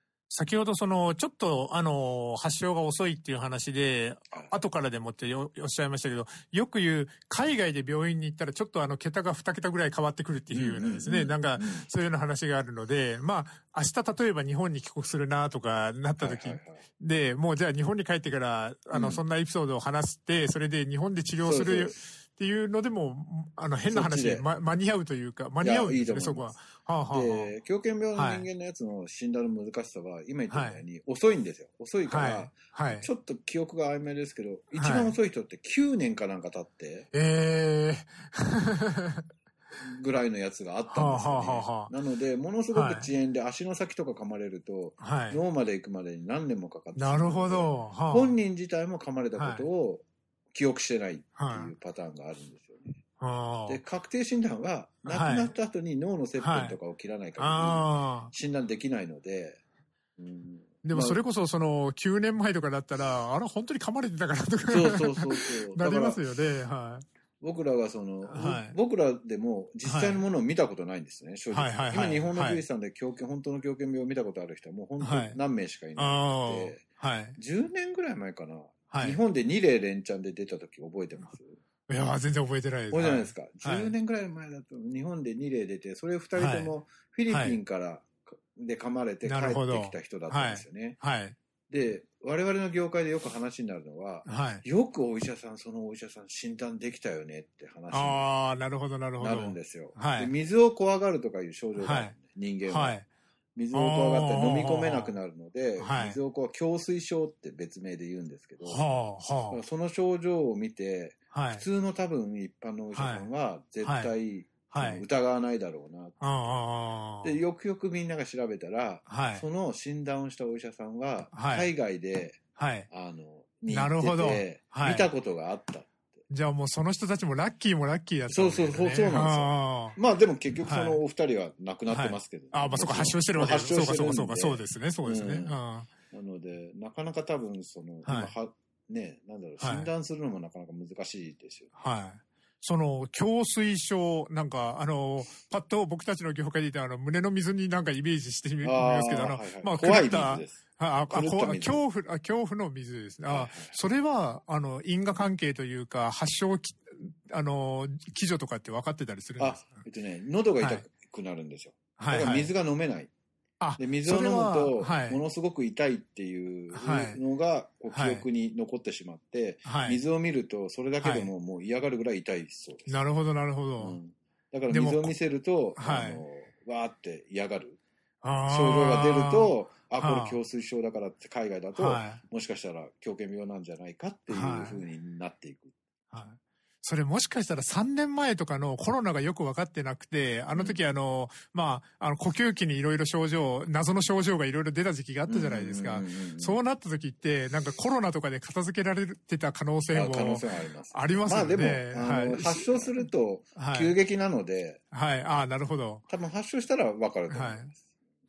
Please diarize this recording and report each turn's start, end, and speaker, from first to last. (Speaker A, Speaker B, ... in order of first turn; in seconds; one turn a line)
Speaker A: 0.3-27.5
Speaker B: 10.5-11.9
Speaker B: 16.2-16.8
Speaker B: 18.9-19.2
Speaker B: 21.4-22.0
Speaker B: 23.9-24.4
Speaker B: 25.6-26.6
Speaker B: 27.1-37.1
Speaker A: 28.2-28.5
Speaker A: 30.5-30.8
Speaker A: 32.1-33.1
Speaker A: 34.7-35.1
Speaker A: 37.1-39.2
Speaker B: 39.8-53.0
Speaker A: 40.9-41.9
Speaker A: 42.7-43.1
Speaker A: 45.0-45.4
Speaker A: 47.0-48.4
Speaker A: 49.4-49.7
Speaker A: 51.4-51.7
Speaker A: 53.2-53.8
Speaker B: 53.7-59.6
Speaker A: 55.1-55.5
Speaker A: 56.4-56.8
Speaker A: 57.4-58.3
Speaker B: 60.2-61.2
Speaker A: 60.8-67.0
Speaker B: 64.7-66.2
Speaker B: 67.4-76.8
Speaker A: 68.3-68.8
Speaker A: 69.8-70.2
Speaker A: 71.5-72.6
Speaker A: 75.0-75.4
Speaker A: 76.0-77.4
Speaker B: 77.4-81.6
Speaker A: 78.9-79.2
Speaker A: 81.9-83.9
Speaker B: 82.9-91.0
Speaker A: 86.4-86.7
Speaker A: 87.3-87.6
Speaker A: 89.2-91.4
Speaker B: 91.7-98.2
Speaker A: 94.3-94.6
Speaker A: 97.9-100.3
Speaker B: 99.2-103.0
Speaker A: 101.8-102.2
Speaker A: 102.7-103.0
Speaker B: 103.5-108.8
Speaker A: 103.7-105.2
Speaker A: 105.8-106.2
Speaker A: 108.6-109.6
Speaker B: 109.5-116.5
Speaker A: 111.3-111.7
Speaker A: 113.0-113.3
Speaker A: 113.8-114.1
Speaker A: 114.7-115.0
Speaker A: 116.2-117.3
Speaker B: 117.2-125.9
Speaker A: 119.1-119.5
Speaker A: 121.3-121.7
Speaker A: 122.6-122.9
Speaker A: 123.7-125.1
Speaker A: 126.3-130.0
Speaker B: 128.3-135.6
Speaker A: 130.7-131.0
Speaker A: 131.9-135.9
Speaker B: 136.1-141.7
Speaker A: 138.1-138.3
Speaker A: 139.6-139.9
Speaker A: 141.8-159.8
Speaker B: 148.6-151.8
Speaker B: 153.3-153.8
Speaker B: 159.4-163.1
Speaker A: 160.6-160.8
Speaker A: 162.0-162.5
Speaker A: 163.6-165.2
Speaker B: 163.8-173.0
Speaker A: 166.7-167.2
Speaker A: 167.9-168.2
Speaker A: 169.7-170.0
Speaker A: 171.0-171.3
Speaker A: 172.9-174.0
Speaker B: 173.8-177.8
Speaker A: 174.7-175.1
Speaker A: 175.8-176.2
Speaker A: 178.2-180.4
Speaker B: 178.5-185.7
Speaker A: 181.8-182.2
Speaker A: 184.3-184.8
Speaker A: 186.1-203.0
Speaker B: 190.5-190.8
Speaker B: 195.3-196.6
Speaker B: 199.9-204.8
Speaker A: 203.6-203.9
Speaker A: 204.9-206.1
Speaker B: 206.1-207.8
Speaker A: 207.3-207.7